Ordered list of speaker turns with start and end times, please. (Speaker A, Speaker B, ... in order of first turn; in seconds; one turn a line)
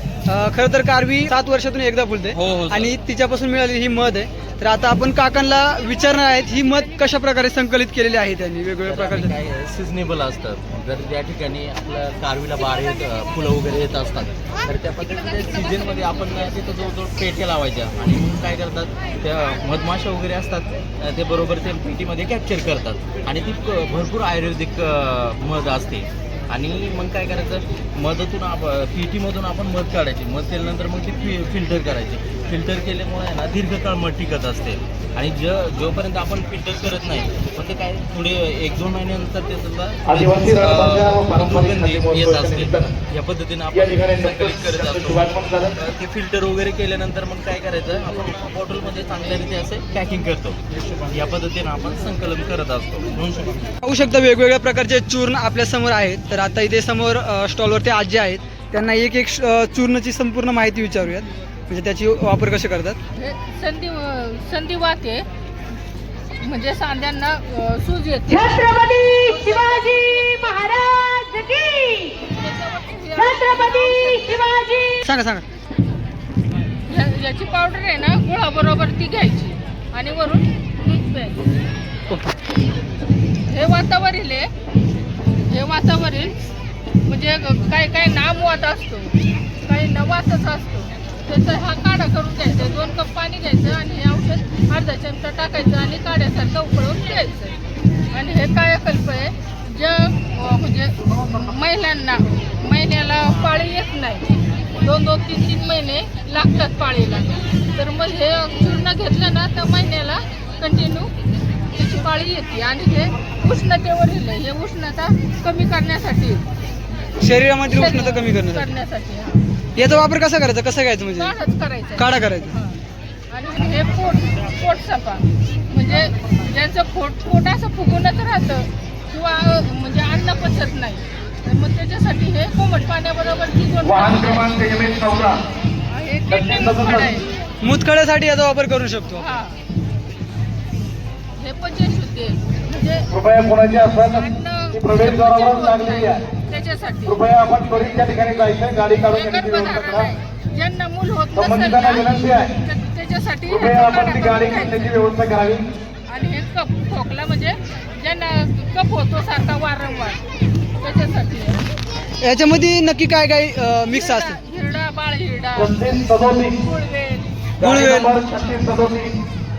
Speaker A: 0.3-9.3
Speaker B: 2.3-2.9
Speaker B: 8.9-50.6
Speaker C: 40.1-43.0
Speaker C: 43.7-45.8
Speaker B: 51.1-53.7
Speaker A: 53.8-63.0
Speaker D: 63.1-65.3
Speaker D: 66.4-71.1
Speaker E: 68.4-70.0
Speaker E: 70.7-72.3
Speaker D: 72.2-74.9
Speaker E: 73.3-74.9
Speaker A: 75.0-75.5
Speaker D: 76.9-81.5
Speaker D: 83.5-84.5
Speaker D: 85.5-86.4
Speaker D: 87.1-97.6
Speaker D: 98.1-111.1
Speaker D: 111.7-116.5
Speaker A: 117.2-118.7
Speaker D: 117.7-119.4
Speaker A: 119.8-121.3
Speaker D: 121.2-122.8
Speaker A: 122.0-122.6
Speaker D: 123.3-134.6
Speaker C: 133.8-135.4
Speaker D: 135.9-137.3
Speaker C: 136.3-137.2
Speaker A: 137.6-139.3
Speaker D: 139.2-139.6
Speaker D: 141.4-143.1
Speaker C: 143.1-146.2
Speaker D: 144.1-147.2
Speaker C: 147.1-150.1
Speaker D: 149.1-155.0
Speaker C: 151.3-152.6
Speaker C: 153.5-155.7
Speaker D: 156.1-160.2
Speaker D: 160.8-161.7
Speaker A: 162.2-164.4
Speaker D: 163.9-165.8
Speaker C: 165.6-166.6
Speaker D: 166.5-167.4
Speaker A: 167.6-168.1
Speaker C: 167.6-169.2